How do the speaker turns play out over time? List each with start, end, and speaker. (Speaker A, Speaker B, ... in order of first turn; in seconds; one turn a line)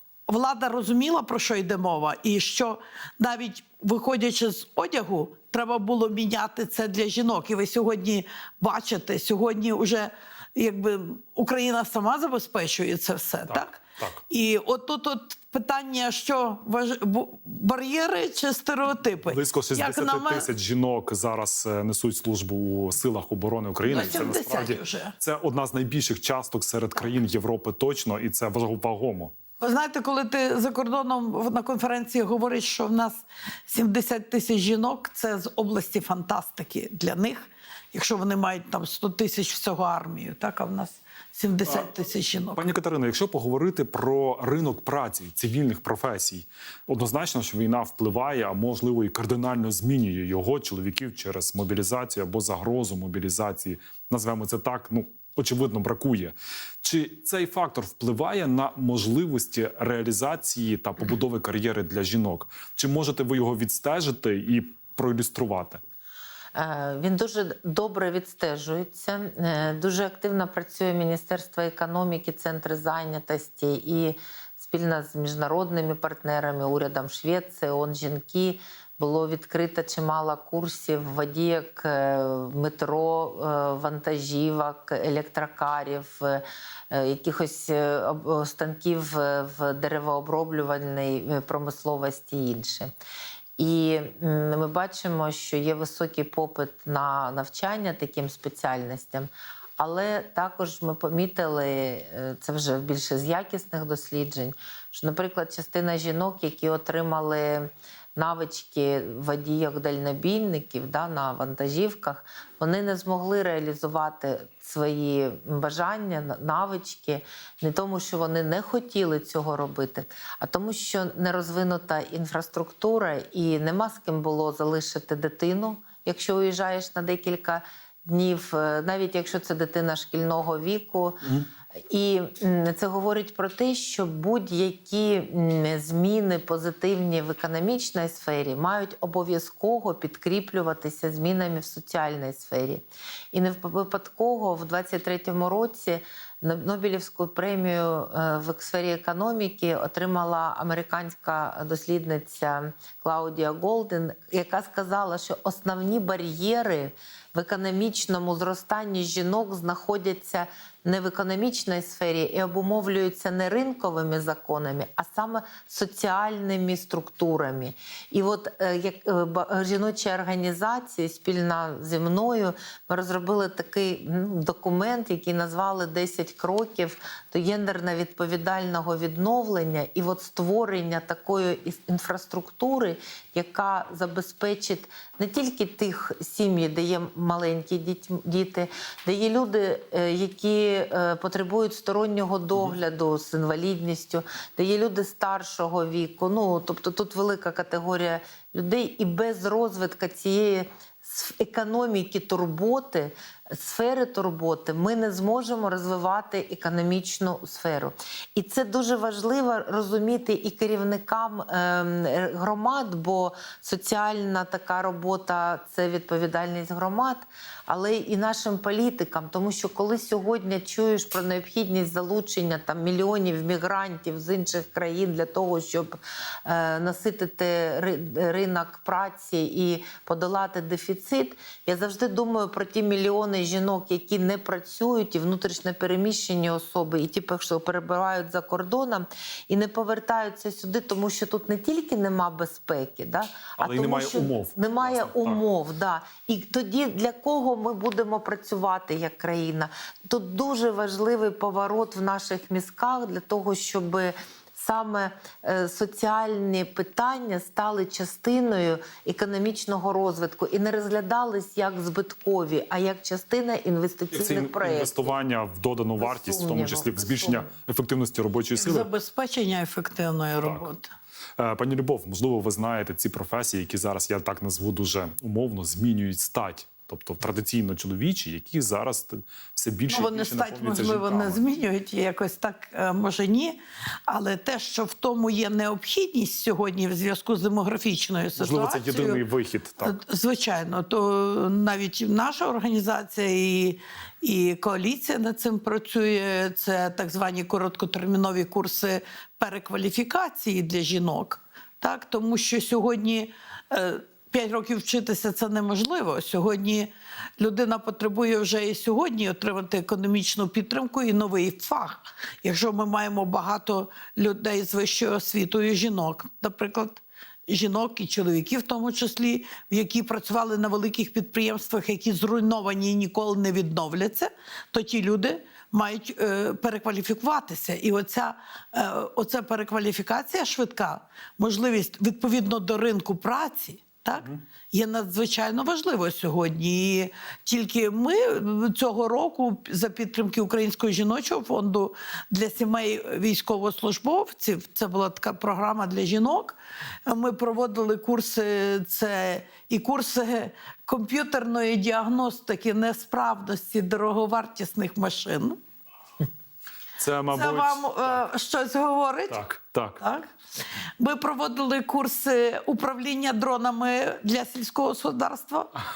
Speaker A: 0.3-20.5
Speaker B: 13.5-14.2
Speaker B: 19.2-29.3
Speaker A: 23.9-25.1
Speaker A: 29.6-42.6
Speaker B: 41.6-41.9
Speaker B: 42.5-65.8
Speaker C: 66.5-92.9
Speaker C: 93.6-131.4
Speaker C: 131.9-265.1
Speaker B: 243.6-245.4
Speaker B: 264.1-268.9
Speaker C: 266.0-267.5
Speaker A: 268.5-270.9
Speaker B: 270.4-270.6
Speaker B: 271.4-281.4
Speaker A: 279.9-289.2
Speaker B: 288.4-290.0
Speaker A: 289.8-355.6
Speaker B: 357.0-358.2
Speaker A: 357.3-359.4
Speaker B: 359.3-360.0
Speaker A: 360.0-360.3
Speaker A: 361.0-365.7